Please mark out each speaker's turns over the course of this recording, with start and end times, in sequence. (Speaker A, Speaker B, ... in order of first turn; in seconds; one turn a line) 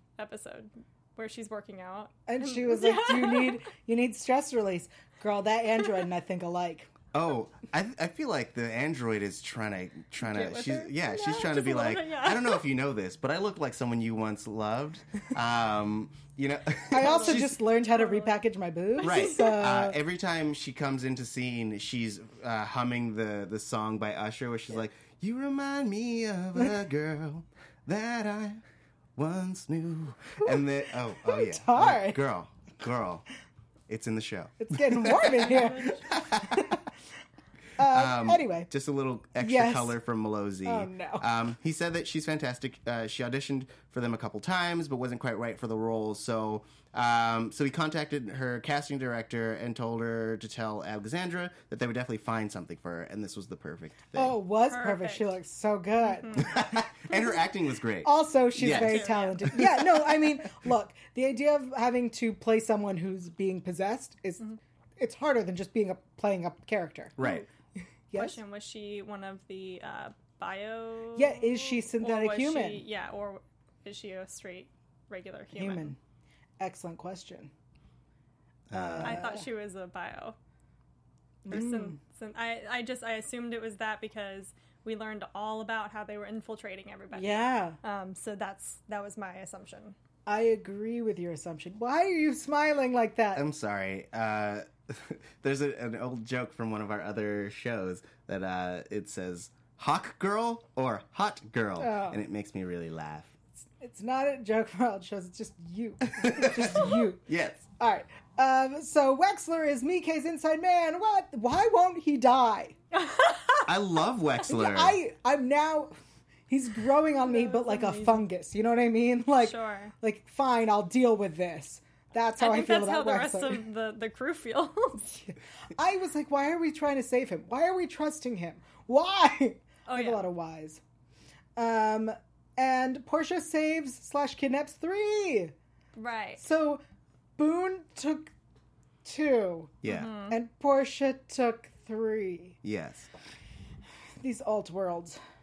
Speaker A: 0.2-3.6
Speaker B: 2.3-6.9
Speaker C: 7.1-17.6
Speaker A: 10.2-12.6
Speaker B: 16.9-20.0
Speaker A: 16.9-18.4
Speaker A: 19.0-19.6
Speaker C: 19.0-28.6
Speaker C: 29.1-33.2
Speaker B: 31.2-32.2
Speaker C: 33.9-36.6
Speaker B: 34.6-36.8
Speaker A: 35.1-36.2
Speaker B: 37.8-38.7
Speaker C: 37.8-54.4
Speaker B: 39.4-40.0
Speaker B: 40.6-41.3
Speaker B: 54.1-56.5
Speaker A: 54.7-55.3
Speaker A: 56.1-56.6
Speaker C: 56.4-60.2
Speaker B: 58.0-67.2
Speaker A: 58.6-59.6
Speaker C: 67.2-67.5
Speaker A: 67.2-67.5
Speaker B: 68.1-68.4
Speaker A: 68.2-75.9
Speaker B: 71.1-72.8
Speaker B: 75.5-76.0
Speaker B: 76.6-77.5
Speaker C: 78.7-79.2
Speaker B: 78.7-79.5
Speaker A: 79.0-80.3
Speaker B: 81.5-82.0
Speaker A: 81.5-89.9
Speaker B: 87.1-87.8
Speaker B: 90.3-93.4
Speaker C: 93.3-103.3
Speaker B: 101.8-102.2
Speaker B: 103.8-112.8
Speaker C: 106.2-107.6
Speaker A: 112.9-113.7
Speaker C: 113.7-115.0
Speaker B: 114.5-115.9
Speaker B: 116.5-123.6
Speaker A: 117.2-118.2
Speaker A: 119.4-119.9
Speaker A: 122.4-125.0
Speaker B: 125.1-130.8
Speaker A: 129.9-130.2
Speaker B: 131.6-135.5
Speaker A: 135.9-136.4
Speaker B: 136.4-136.8
Speaker B: 137.4-138.3
Speaker B: 139.0-142.6
Speaker C: 139.8-140.1
Speaker A: 139.8-140.4
Speaker C: 142.6-143.1
Speaker B: 144.2-145.2